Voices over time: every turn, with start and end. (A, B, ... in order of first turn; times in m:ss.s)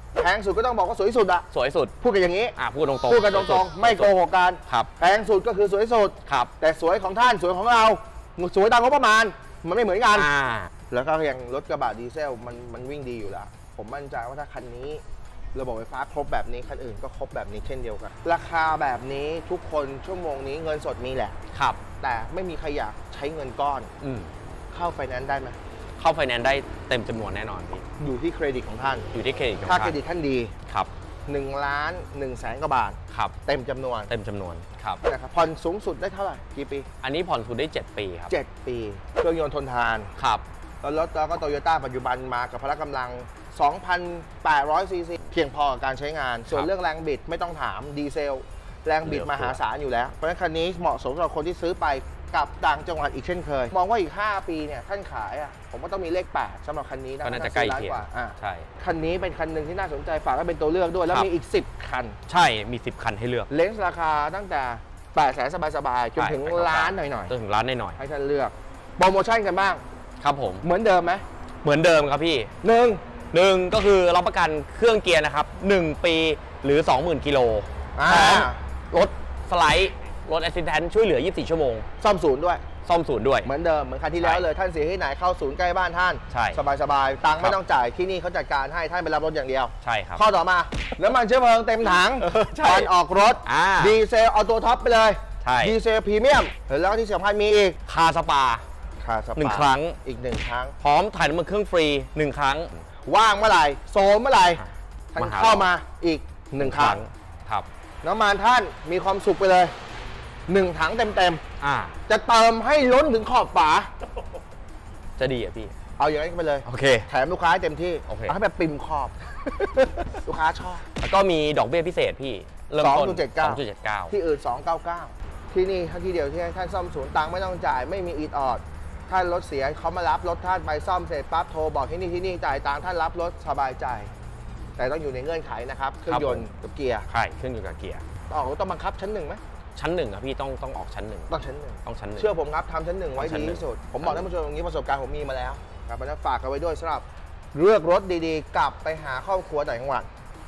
0:00.2-0:01.5 A
0:01.5-0:01.9 B
0:02.0-0:10.3 A
0:02.6-0:04.1 B
0:06.3-0:06.5 B
0:10.1-0:10.7 B
0:10.9-0:15.0 A
0:15.5-0:21.4 A
0:21.5-0:21.8 B
0:22.0-0:23.9 A
0:24.0-0:24.3 B
0:24.7-0:25.6 A
0:26.0-0:27.8 B
0:28.0-0:29.1 A
0:29.1-0:30.0 B
0:29.6-0:30.5 A
0:31.3-0:34.1 A
0:34.1-0:35.0 B
0:35.1-0:36.9 A
0:37.0-0:38.3 B
0:38.3-0:40.1 A
0:40.2-0:40.4 B
0:40.8-1:02.2 A
0:49.0-0:49.6 B
0:57.2-0:58.7 B
1:02.3-1:03.5 B
1:03.5-1:07.3 A
1:06.2-1:08.0 B
1:08.0-1:09.8 A
1:10.2-1:10.6 B
1:10.6-1:11.2 A
1:11.6-1:12.5 B
1:12.6-1:13.0 A
1:13.3-1:21.9 B
1:18.0-1:18.6 A
1:22.0-1:22.6 A
1:22.8-1:23.5 B
1:23.4-1:37.8 A
1:24.2-1:24.5 B
1:26.3-1:26.6 B
1:29.8-1:30.2 B
1:32.2-1:32.9 B
1:33.4-1:34.0 B
1:35.4-1:35.8 B
1:37.9-1:38.6 B
1:39.0-1:40.7 A
1:39.4-1:40.0 B
1:40.8-1:42.8 B
1:43.0-1:47.0 A
1:44.6-1:45.7 B
1:46.6-1:47.7 B
1:48.0-1:49.7 A
1:50.5-1:51.4 A
1:51.6-1:52.0 B
1:52.1-1:53.9 A
1:55.2-1:55.7 B
1:56.0-2:00.9 A
1:56.6-1:57.1 B
1:58.1-1:58.4 B
2:01.0-2:04.1 B
2:02.8-2:14.1 A
2:14.8-2:17.1 A
2:16.1-2:16.5 B
2:17.1-2:18.0 B
2:18.3-2:19.4 A
2:19.8-2:21.3 B
2:21.3-2:30.1 A
2:21.8-2:22.3 B
2:23.2-2:24.3 B